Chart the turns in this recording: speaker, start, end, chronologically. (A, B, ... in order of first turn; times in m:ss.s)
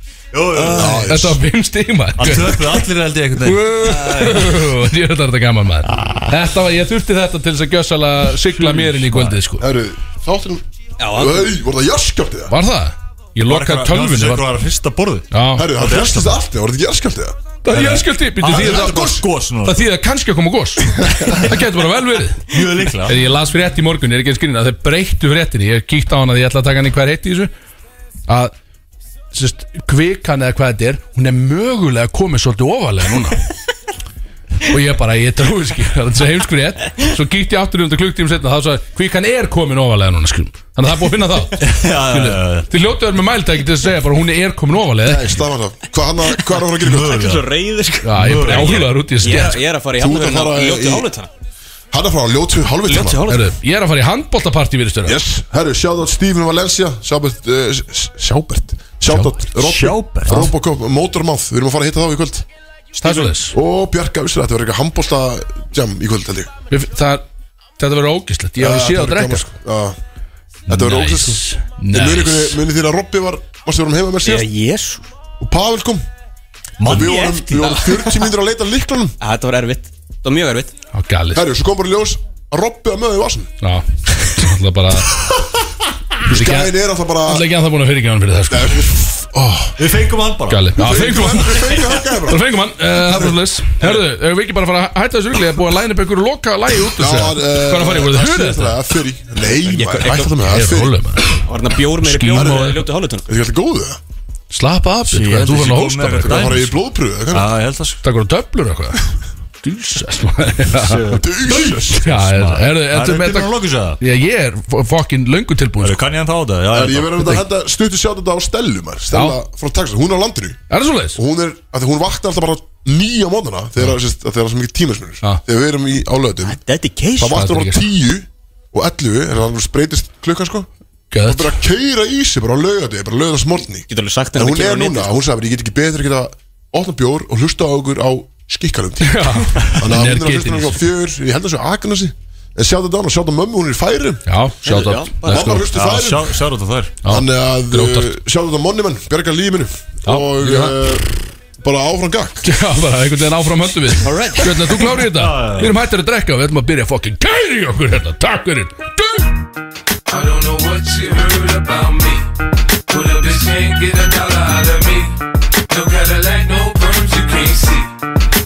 0:00.3-0:01.1 A
0:00.5-0:01.0 B
0:00.6-0:01.4 C
0:01.0-0:02.9 D
0:02.2-0:03.8 A
0:03.4-0:09.7 D
0:03.4-0:04.3 C
0:08.4-0:09.4 A
0:09.6-0:12.5 C
0:11.0-0:11.5 B
0:12.5-0:14.5 D
0:13.4-0:16.4 A
0:15.3-0:15.7 D
0:15.5-0:17.4 C
0:17.6-0:27.5 D
0:17.7-0:19.8 A
0:18.5-0:19.3 C
0:21.0-0:21.3 C
0:22.5-0:23.2 A
0:28.3-0:28.5 D
0:29.3-0:33.4 D
0:34.6-0:45.4 D
0:41.6-0:42.7 A
0:45.0-0:47.3 C
0:46.8-0:51.3 B
0:46.8-0:47.5 A
0:48.0-0:49.6 D
0:48.2-0:48.9 A
0:50.0-0:51.1 C
0:51.9-0:53.2 C
0:52.9-0:53.5 B
0:53.3-0:55.2 D
0:55.0-1:02.4 C
0:59.1-1:00.5 A
1:03.0-1:03.3 A
1:03.0-1:03.6 D
1:03.5-1:06.5 C
1:06.7-1:07.2 D
1:07.8-1:09.4 D
1:08.6-1:10.0 C
1:10.7-1:12.6 D
1:10.7-1:14.5 C
1:14.2-1:15.0 B
1:15.4-1:16.0 C
1:16.8-1:17.4 A
1:16.8-1:19.1 C
1:16.9-1:18.3 B
1:19.2-1:20.7 B
1:20.9-1:21.4 D
1:21.3-1:23.5 C
1:23.6-1:25.2 D
1:26.2-1:27.5 C
1:26.2-1:28.9 D
1:28.5-1:29.8 C
1:29.8-1:30.7 A
1:30.5-1:38.8 D
1:30.7-1:32.5 C
1:36.9-1:41.0 C
1:39.5-1:40.3 B
1:40.4-1:41.4 D
1:41.4-1:43.3 B
1:42.0-1:42.8 D
1:43.3-1:44.0 C
1:44.5-1:46.5 D
1:45.0-1:48.0 A
1:46.2-1:47.5 C
1:48.0-1:51.2 D
1:50.7-1:54.0 A
1:51.1-1:52.2 C
1:52.0-1:56.0 D
1:55.8-1:57.3 A
1:56.7-2:00.6 C
1:59.1-1:59.4 D
2:00.7-2:01.2 D
2:01.1-2:06.6 C
2:06.4-2:07.4 B
2:07.2-2:10.7 C
2:07.3-2:07.8 D
2:11.1-2:11.6 D
2:11.2-2:24.2 C
2:13.9-2:15.1 B
2:19.0-2:20.8 D
2:24.3-2:25.6 D
2:24.6-2:25.5 B
2:25.2-2:26.4 C
2:25.6-2:26.9 A
2:27.0-2:28.1 D
2:27.0-2:32.4 C
2:30.0-2:30.8 D
2:32.4-2:39.3 D
2:34.0-2:34.5 B
2:35.0-2:35.7 A
2:40.5-2:42.2 E
2:43.3-2:45.0 E
2:46.6-2:47.8 E